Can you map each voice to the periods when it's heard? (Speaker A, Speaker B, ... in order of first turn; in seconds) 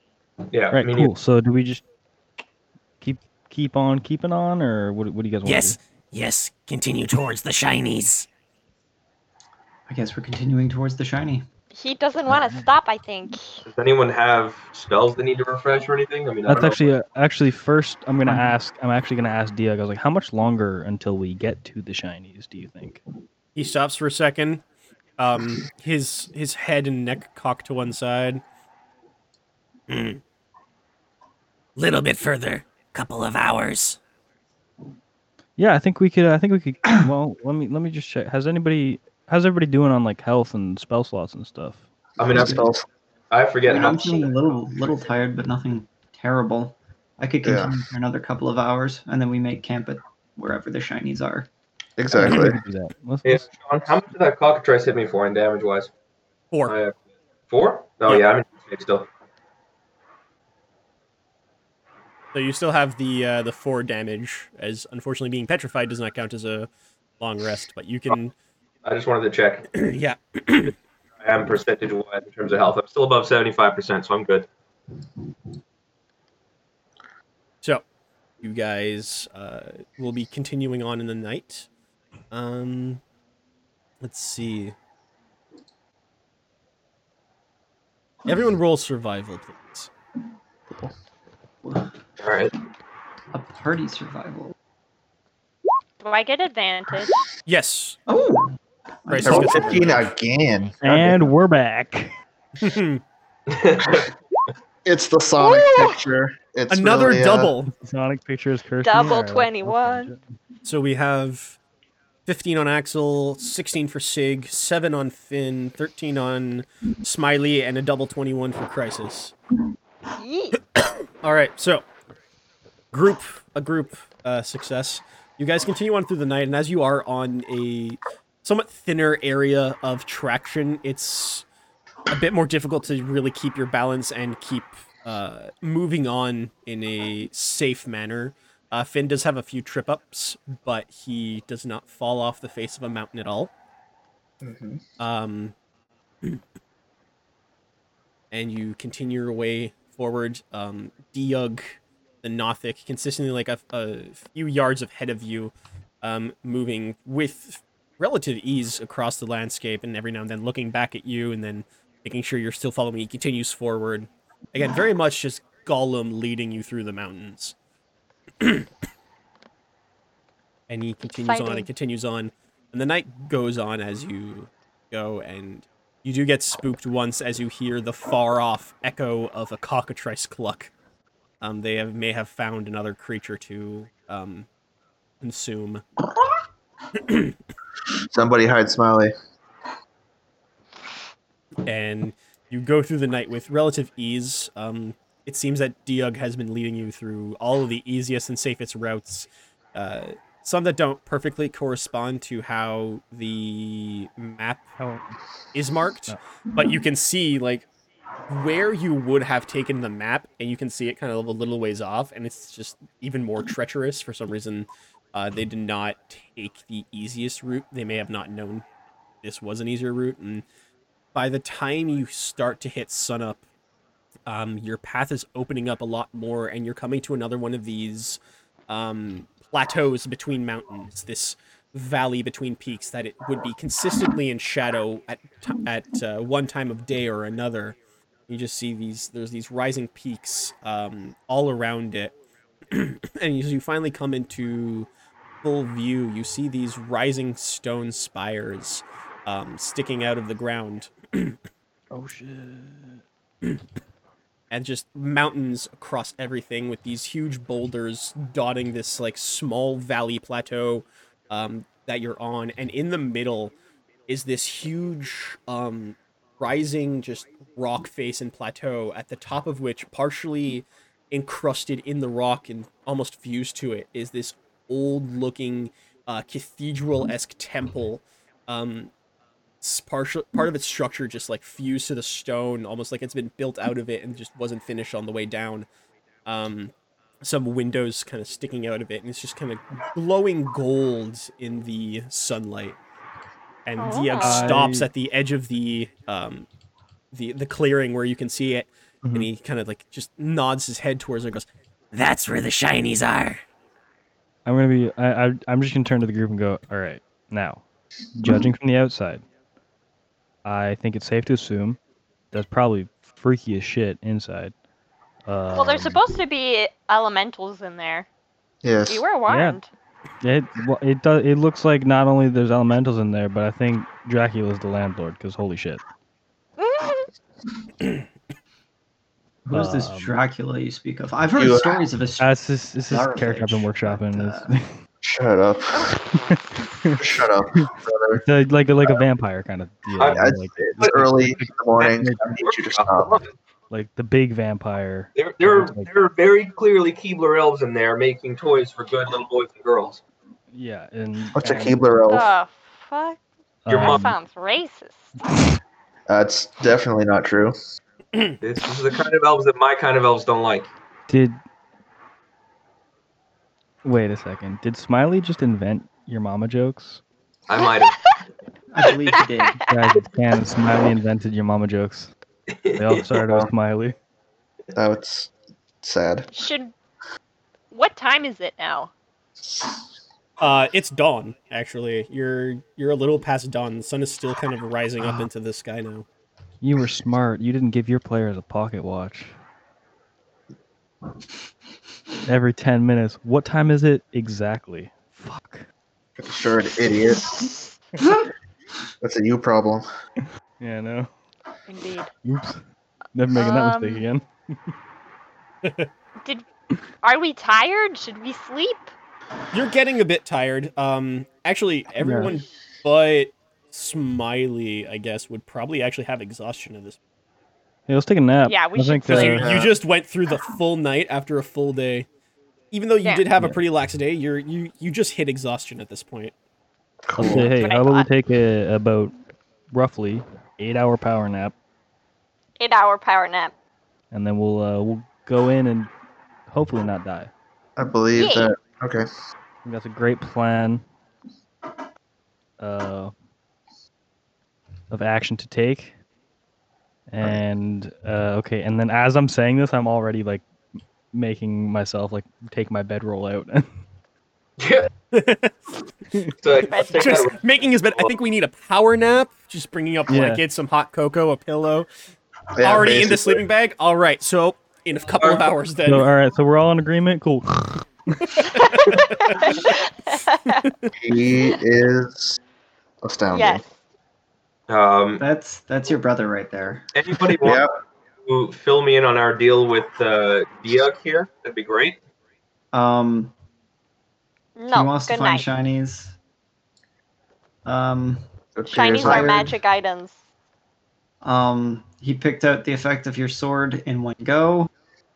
Speaker A: 0.5-1.1, 13.7-16.9, 42.2-42.6, 43.3-44.3, 53.2-55.9, 56.7-57.0, 57.5-59.1, 68.8-69.7, 71.2-74.5, 92.2-92.5, 103.5-104.1, 340.0-341.1, 341.8-343.3, 345.1-350.0, 353.7-354.1, 358.4-360.7, 367.5-368.0, 372.5-373.1, 454.6-454.9, 456.4-458.1, 465.2-465.5, 474.7-475.2, 476.9-477.6, 478.2-482.0
Speaker B: 0.7-1.8, 3.0-5.8, 12.3-12.6, 16.5-23.0, 35.6-41.8, 52.1-53.4, 100.8-102.1, 107.7-110.2, 204.8-205.1, 251.9-253.0, 294.2-294.9, 304.4-307.6, 308.1-309.2, 310.4-311.8, 312.3-314.5, 315.2-316.0, 319.3-319.6, 320.2-325.8, 329.5-330.1, 332.2-334.7, 336.1-337.0, 338.2-342.2, 343.7-345.9, 350.5-351.8, 353.6-354.1, 361.1-361.4, 363.8-367.0, 369.7-372.1, 372.8-373.9, 386.6-389.3, 392.2-395.6, 400.6-401.1, 402.2-402.6, 403.1-404.2, 412.0-412.3, 417.9-419.4, 427.1-429.1, 429.7-431.5, 434.1-435.9, 436.5-437.3, 439.6-440.8, 442.6-443.1, 444.9-445.9, 447.1-450.4, 451.1-453.7, 460.1-460.4, 465.9-468.4
Speaker C: 5.4-8.3, 29.9-30.2, 31.8-34.0, 301.9-303.4
Speaker D: 9.9-11.4, 42.3-42.7, 43.6-51.5, 93.3-94.5, 98.1-98.5, 99.1-100.0, 329.5-334.5, 368.7-369.6, 475.2-476.9, 482.7-483.3, 484.7-486.1, 487.6-488.2, 488.9-489.6, 491.2-494.7
Speaker E: 11.7-13.6, 96.0-97.2, 105.4-106.0, 108.8-110.1, 120.2-120.6, 171.0-171.7, 293.8-294.5, 315.5-318.1, 318.9-319.7, 326.6-327.1, 352.1-353.2, 353.7-355.1, 367.6-368.2, 369.2-369.6, 376.3-376.7, 377.7-378.9, 401.7-402.1, 403.3-404.0, 407.0-408.9, 418.4-419.5, 427.3-428.1, 432.6-433.5, 438.1-438.5, 456.6-457.3, 468.5-470.6, 473.3-473.7, 484.6-485.5, 488.7-490.2
Speaker F: 23.5-24.6, 25.2-28.4, 62.3-66.7, 67.2-68.3, 69.8-70.7, 78.4-81.7, 82.3-83.0, 84.0-84.7, 88.2-89.9, 97.5-98.0, 99.1-100.1, 102.6-103.0, 106.7-107.7, 110.6-111.6, 112.2-119.3, 120.8-121.8, 122.9-131.4, 132.1-143.5, 145.0-145.5, 148.3-167.5, 168.4-168.7, 170.7-180.7, 181.4-184.5, 185.2-185.8, 191.7-204.7, 205.5-207.7, 208.3-218.6, 219.2-220.4, 221.1-223.4, 224.3-237.8, 238.3-242.1, 242.7-244.9, 245.4-251.4, 254.5-263.5, 264.1-278.9, 279.6-285.7, 286.2-292.8, 293.6-296.5, 297.1-301.5, 380.4-386.1, 405.6-405.9, 409.5-417.0, 419.1-422.1, 422.7-426.3, 455.1-455.6, 456.7-461.9, 462.6-466.1, 468.9-469.3
Speaker G: 42.2-42.9, 47.4-47.8, 52.0-52.6, 99.2-101.2, 104.8-107.5, 144.4-144.8, 188.1-189.1, 318.6-319.0, 331.3-331.9, 335.0-335.9, 337.0-338.2, 340.1-343.2, 351.3-352.3, 356.1-357.5, 373.2-373.5, 374.7-375.3, 375.8-376.3, 396.2-397.5, 399.0-399.8, 419.4-419.7, 427.1-427.5, 437.8-439.1, 462.6-463.4, 471.0-472.4, 473.0-473.6, 477.4-477.7, 488.6-489.5